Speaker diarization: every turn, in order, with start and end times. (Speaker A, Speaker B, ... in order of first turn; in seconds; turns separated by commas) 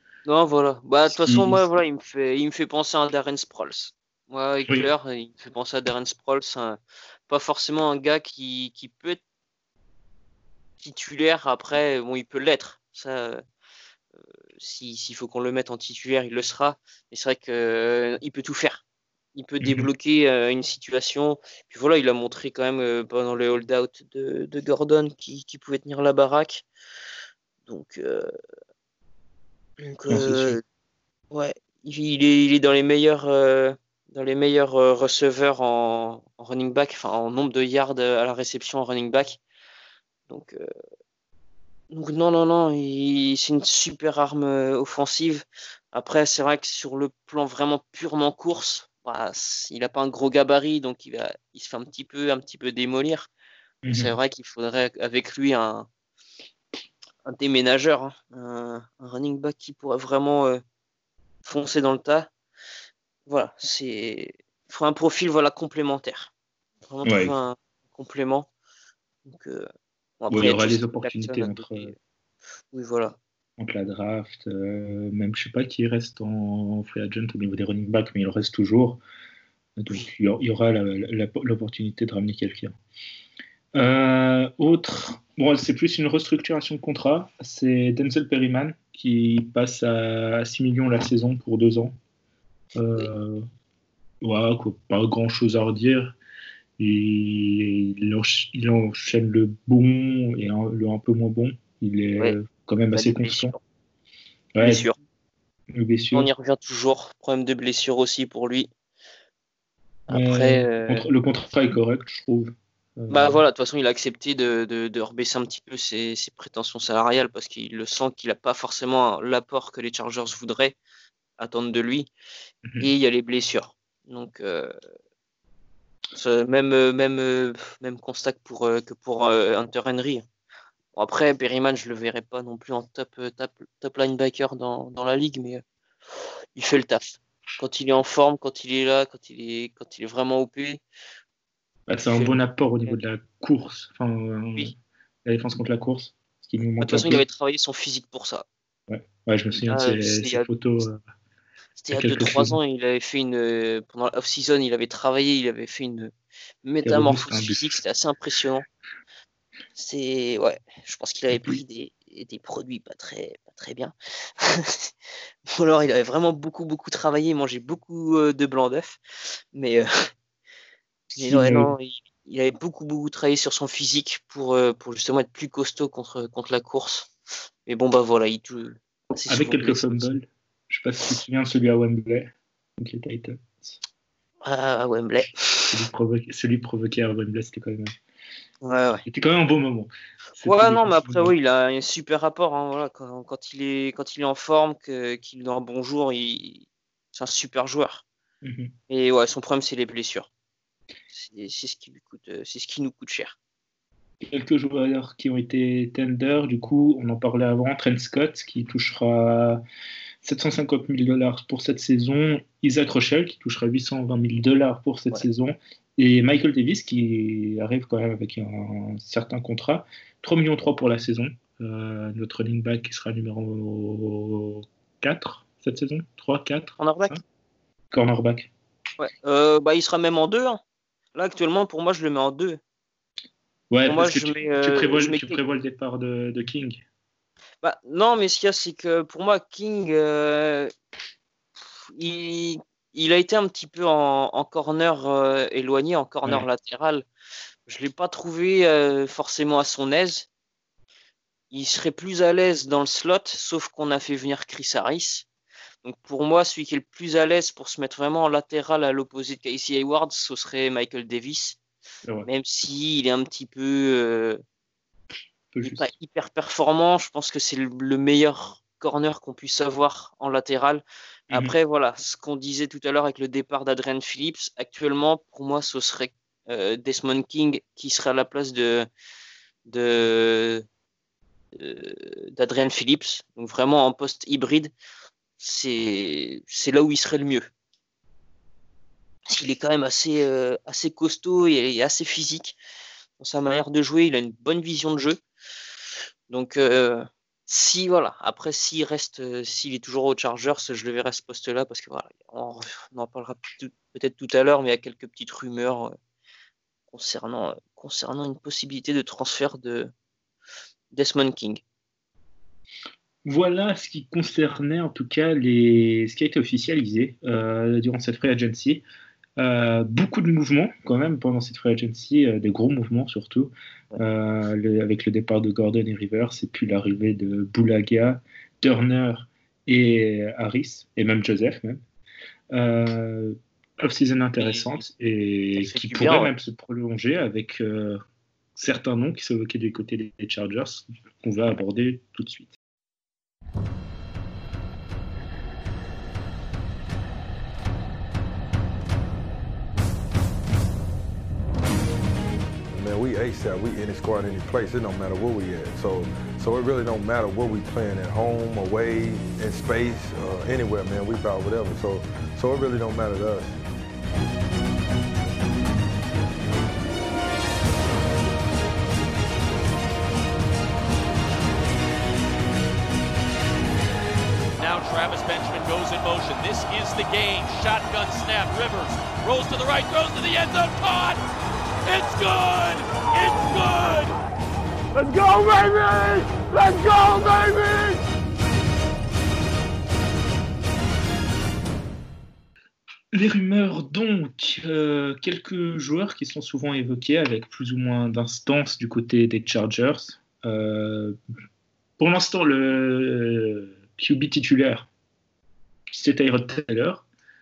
Speaker A: 0.2-9.2, Speaker B: 1.1-1.7, Speaker A: 10.8-13.4, Speaker A: 14.6-18.8, Speaker A: 19.3-26.6, Speaker B: 19.6-19.9, Speaker A: 27.7-28.3, Speaker A: 29.8-30.6, Speaker B: 30.1-30.6, Speaker A: 31.3-39.4, Speaker A: 40.3-40.7, Speaker A: 41.9-53.3, Speaker B: 53.8-54.1, Speaker A: 53.9-55.9, Speaker A: 57.2-60.6, Speaker A: 61.4-62.3, Speaker A: 63.3-66.3, Speaker A: 66.9-68.5, Speaker B: 67.0-67.3, Speaker A: 69.2-69.7, Speaker A: 70.2-72.0, Speaker B: 70.3-71.9, Speaker A: 72.7-73.2, Speaker B: 73.6-79.0, Speaker B: 79.8-82.7, Speaker B: 83.7-92.0, Speaker B: 92.8-93.4, Speaker B: 94.2-96.2, Speaker B: 96.8-103.5, Speaker A: 102.9-103.6, Speaker B: 104.5-104.9, Speaker A: 104.6-105.0, Speaker B: 105.7-106.3, Speaker A: 106.1-108.7, Speaker A: 110.1-111.1, Speaker B: 110.1-113.4, Speaker A: 113.1-120.8, Speaker A: 121.4-122.1, Speaker B: 122.6-122.9, Speaker A: 122.8-124.7, Speaker A: 126.1-130.3, Speaker A: 130.9-135.6, Speaker A: 136.6-140.8, Speaker B: 141.9-144.7, Speaker A: 142.1-143.0, Speaker B: 145.2-147.2, Speaker A: 146.8-148.4, Speaker B: 148.9-151.0, Speaker A: 149.6-150.5, Speaker A: 151.8-158.7, Speaker B: 151.9-152.6, Speaker B: 156.8-157.8, Speaker A: 159.8-164.9, Speaker B: 161.3-161.6, Speaker A: 165.6-169.9, Speaker A: 171.2-177.1, Speaker B: 171.2-171.7, Speaker A: 177.7-180.2, Speaker B: 179.3-183.8, Speaker A: 184.4-185.8, Speaker B: 185.7-187.9, Speaker A: 188.6-189.0, Speaker B: 189.1-191.3, Speaker A: 190.4-198.0, Speaker B: 198.4-198.7, Speaker A: 198.9-200.3, Speaker A: 201.1-203.3, Speaker B: 204.2-209.6, Speaker B: 210.2-227.2, Speaker A: 226.8-227.2, Speaker B: 227.9-228.5, Speaker A: 229.0-230.6, Speaker A: 231.1-232.6, Speaker B: 233.7-236.8, Speaker A: 233.8-235.4, Speaker A: 237.6-240.7, Speaker A: 241.9-247.0, Speaker A: 247.7-250.3, Speaker A: 251.5-255.2, Speaker A: 255.8-261.6, Speaker A: 262.2-264.4, Speaker B: 265.5-265.9, Speaker A: 265.6-278.9, Speaker A: 279.7-280.6, Speaker A: 281.6-284.7, Speaker A: 285.4-287.5, Speaker A: 289.3-292.6, Speaker A: 293.2-295.2, Speaker A: 296.3-305.9, Speaker A: 306.9-309.9, Speaker A: 310.9-311.6, Speaker B: 313.2-318.8, Speaker B: 319.4-331.8, Speaker B: 332.5-338.0, Speaker A: 334.4-334.8, Speaker A: 335.6-336.3, Speaker B: 338.6-342.5, Speaker C: 352.7-363.6, Speaker D: 374.6-381.2, Speaker D: 381.8-384.1, Speaker E: 384.9-388.0, Speaker B: 393.1-401.1, Speaker B: 402.0-404.9, Speaker B: 405.9-407.1